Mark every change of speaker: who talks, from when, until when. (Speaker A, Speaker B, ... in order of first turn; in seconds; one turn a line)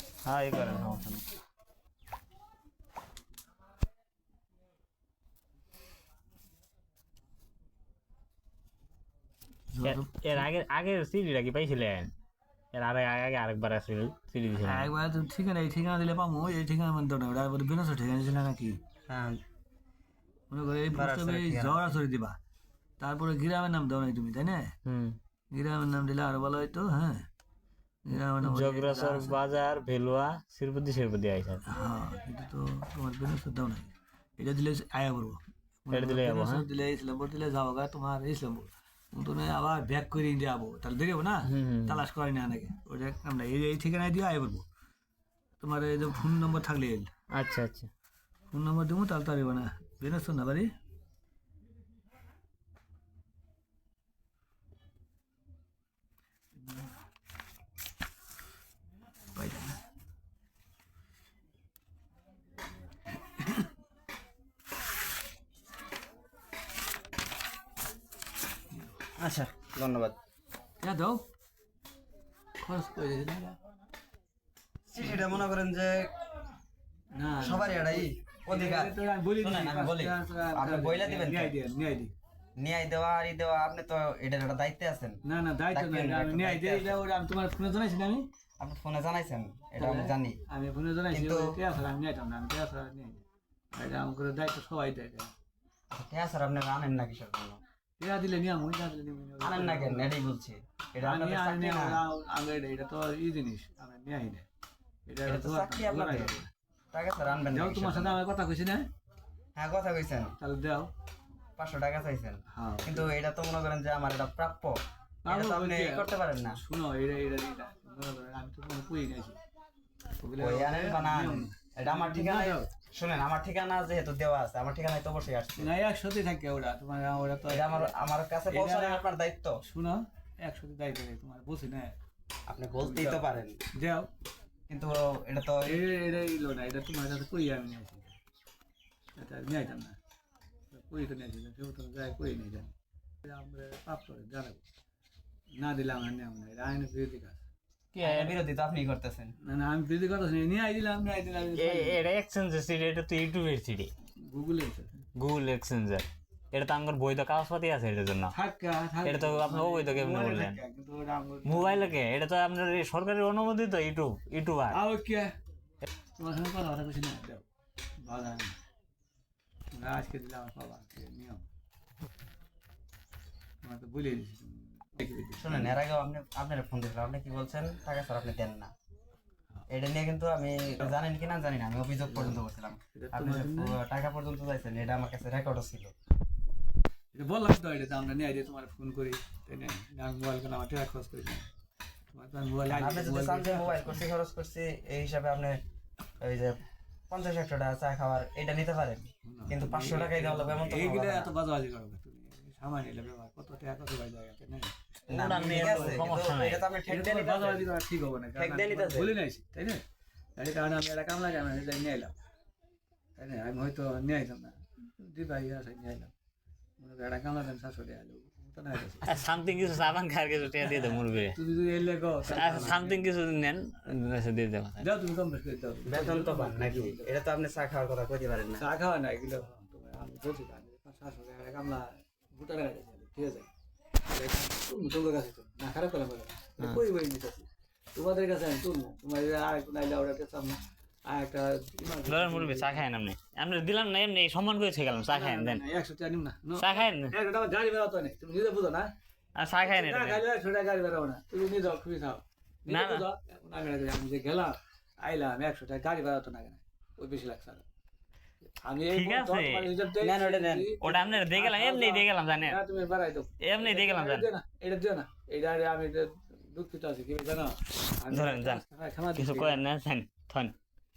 Speaker A: 0.3-1.2
Speaker B: 0.3-1.2
Speaker C: 9.7-10.5
Speaker A: 9.8-12.1
Speaker A: 12.7-14.9
Speaker C: 14.6-18.8
Speaker B: 19.1-19.4
Speaker C: 20.5-22.4
Speaker B: 20.9-21.8
Speaker C: 23.0-24.7
Speaker A: 24.8-25.2
Speaker C: 25.5-27.3
Speaker C: 28.1-29.4
Speaker A: 28.4-31.6
Speaker C: 31.7-44.7
Speaker A: 35.9-36.7
Speaker A: 41.5-42.0
Speaker C: 45.6-47.1
Speaker A: 47.3-47.9
Speaker C: 48.5-50.7
Speaker C: 59.4-59.8
Speaker B: 69.2-70.2
Speaker C: 70.8-71.2
Speaker C: 72.6-73.6
Speaker B: 74.9-76.1
Speaker C: 75.0-75.4
Speaker C: 77.1-82.1
Speaker B: 77.4-81.5
Speaker B: 82.6-85.2
Speaker C: 85.2-88.3
Speaker B: 85.7-87.1
Speaker B: 88.6-90.4
Speaker C: 89.8-93.2
Speaker B: 91.1-91.6
Speaker C: 93.7-95.3
Speaker B: 95.9-97.6
Speaker C: 98.0-100.1
Speaker B: 99.4-102.0
Speaker C: 101.0-104.5
Speaker C: 105.1-106.5
Speaker B: 105.2-106.4
Speaker B: 106.9-108.2
Speaker C: 107.5-108.8
Speaker B: 109.6-110.3
Speaker C: 110.4-110.9
Speaker B: 111.6-116.6
Speaker C: 112.5-113.1
Speaker C: 115.2-119.4
Speaker C: 120.2-122.7
Speaker B: 120.4-125.7
Speaker C: 125.6-127.9
Speaker B: 127.5-129.6
Speaker C: 128.5-129.0
Speaker C: 129.6-131.9
Speaker B: 132.5-133.6
Speaker C: 132.8-134.1
Speaker B: 134.7-135.8
Speaker C: 135.6-138.2
Speaker C: 139.2-140.0
Speaker C: 140.7-142.7
Speaker C: 143.2-144.6
Speaker C: 145.6-147.4
Speaker A: 147.9-148.4
Speaker B: 148.0-149.3
Speaker C: 149.4-152.0
Speaker A: 151.6-153.9
Speaker C: 154.2-154.9
Speaker A: 155.2-158.3
Speaker C: 158.3-162.0
Speaker A: 159.0-160.6
Speaker A: 161.4-164.8
Speaker C: 164.7-165.3
Speaker C: 166.2-167.4
Speaker C: 168.0-168.6
Speaker C: 169.7-171.5
Speaker C: 173.6-175.8
Speaker B: 175.4-178.7
Speaker B: 179.7-185.9
Speaker C: 182.1-182.4
Speaker C: 182.9-183.8
Speaker C: 187.1-191.5
Speaker C: 192.1-194.0
Speaker B: 192.7-195.6
Speaker B: 196.2-201.3
Speaker C: 199.2-204.8
Speaker A: 205.1-206.6
Speaker B: 205.1-207.7
Speaker C: 205.3-206.1
Speaker C: 206.9-209.8
Speaker B: 208.3-209.2
Speaker C: 210.4-212.1
Speaker C: 213.2-216.1
Speaker C: 216.8-219.7
Speaker A: 219.0-221.3
Speaker C: 220.6-223.1
Speaker A: 222.3-224.9
Speaker C: 224.8-227.1
Speaker B: 225.9-228.7
Speaker C: 228.6-233.5
Speaker C: 234.1-242.8
Speaker A: 242.1-245.6
Speaker C: 245.1-248.9
Speaker A: 246.6-247.1
Speaker A: 249.4-250.2
Speaker C: 249.6-257.6
Speaker A: 252.7-253.1
Speaker C: 258.6-269.6
Speaker A: 258.9-259.7
Speaker B: 260.0-261.1
Speaker A: 260.8-262.6
Speaker A: 263.4-264.3
Speaker A: 268.1-268.6
Speaker A: 269.1-270.5